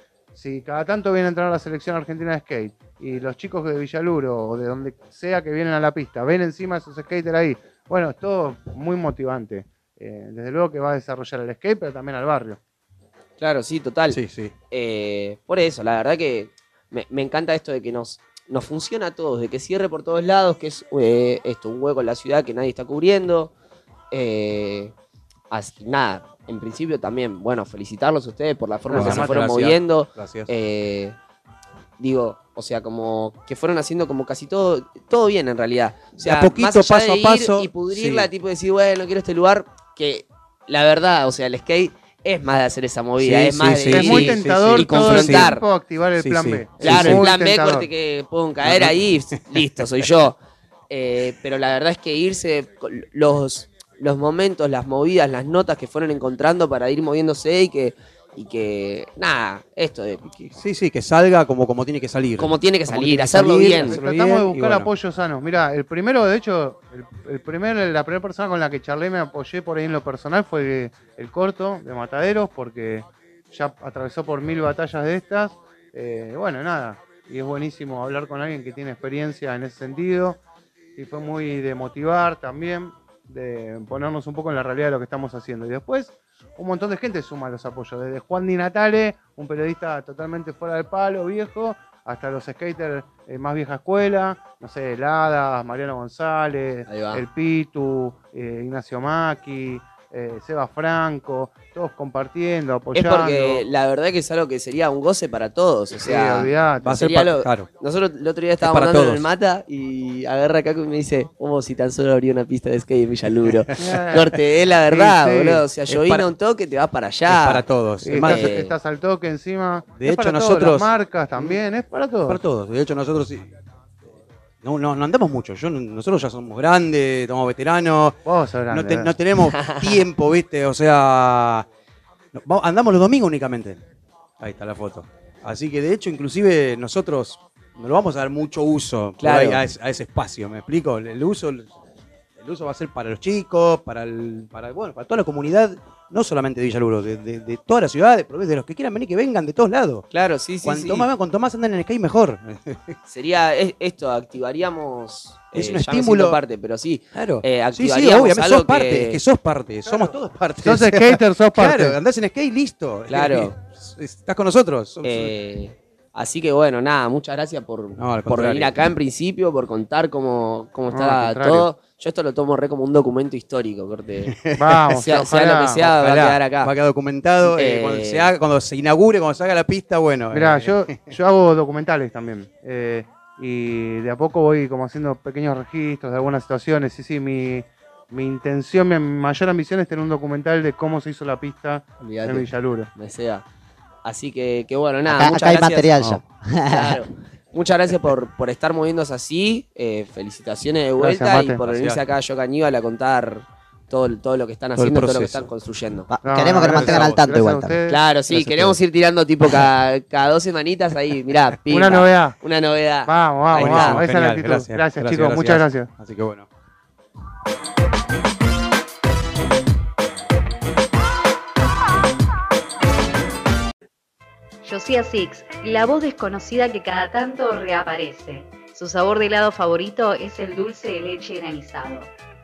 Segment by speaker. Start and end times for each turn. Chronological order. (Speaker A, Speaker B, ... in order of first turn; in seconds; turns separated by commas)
Speaker A: 0.3-12.6, Speaker B: 13.4-14.2, Speaker C: 14.1-14.5, Speaker B: 14.7-23.5, Speaker B: 24.1-24.9, Speaker B: 25.5-31.1, Speaker C: 28.9-30.5, Speaker B: 32.0-45.6, Speaker C: 36.2-38.3, Speaker C: 43.2-45.6, Speaker A: 43.8-47.9, Speaker C: 46.1-47.3, Speaker B: 46.8-50.4, Speaker C: 48.6-50.1, Speaker B: 50.9-60.2, Speaker C: 60.2-64.9, Speaker B: 62.4-64.0, Speaker A: 63.5-80.4, Speaker A: 81.0-103.6, Speaker B: 96.9-97.2, Speaker B: 102.9-118.7, Speaker A: 105.9-107.0, Speaker C: 106.8-107.7, Speaker C: 108.6-109.3, Speaker C: 113.5-114.2, Speaker A: 113.8-114.3, Speaker A: 114.9-115.6, Speaker C: 115.9-116.3, Speaker C: 117.3-118.6, Speaker A: 118.0-122.4, Speaker C: 119.9-120.9, Speaker C: 122.3-123.5, Speaker C: 124.6-131.7, Speaker A: 128.2-129.2, Speaker B: 129.3-130.0, Speaker C: 132.3-133.8, Speaker C: 134.4-141.7, Speaker B: 139.2-139.7, Speaker C: 142.3-150.1, Speaker B: 150.1-151.1, Speaker C: 150.6-153.0, Speaker B: 153.0-159.2, Speaker C: 155.5-156.4, Speaker C: 157.1-165.3, Speaker A: 159.9-162.0, Speaker B: 163.1-163.5, Speaker B: 165.0-174.4, Speaker C: 168.0-168.8, Speaker A: 170.9-171.7, Speaker C: 174.2-175.1, Speaker A: 174.6-175.8, Speaker B: 174.9-176.7, Speaker C: 175.8-181.1, Speaker B: 177.4-178.3, Speaker A: 180.3-192.9, Speaker B: 192.0-193.4, Speaker B: 194.0-206.1, Speaker D: 195.1-197.0, Speaker A: 201.0-201.6, Speaker C: 201.3-202.0, Speaker C: 204.8-205.5, Speaker D: 206.1-207.7, Speaker A: 206.2-208.1, Speaker C: 206.5-207.3, Speaker B: 207.9-214.0, Speaker C: 208.3-208.8, Speaker A: 211.7-212.4, Speaker A: 213.0-215.9, Speaker C: 213.5-216.5, Speaker E: 224.6-232.1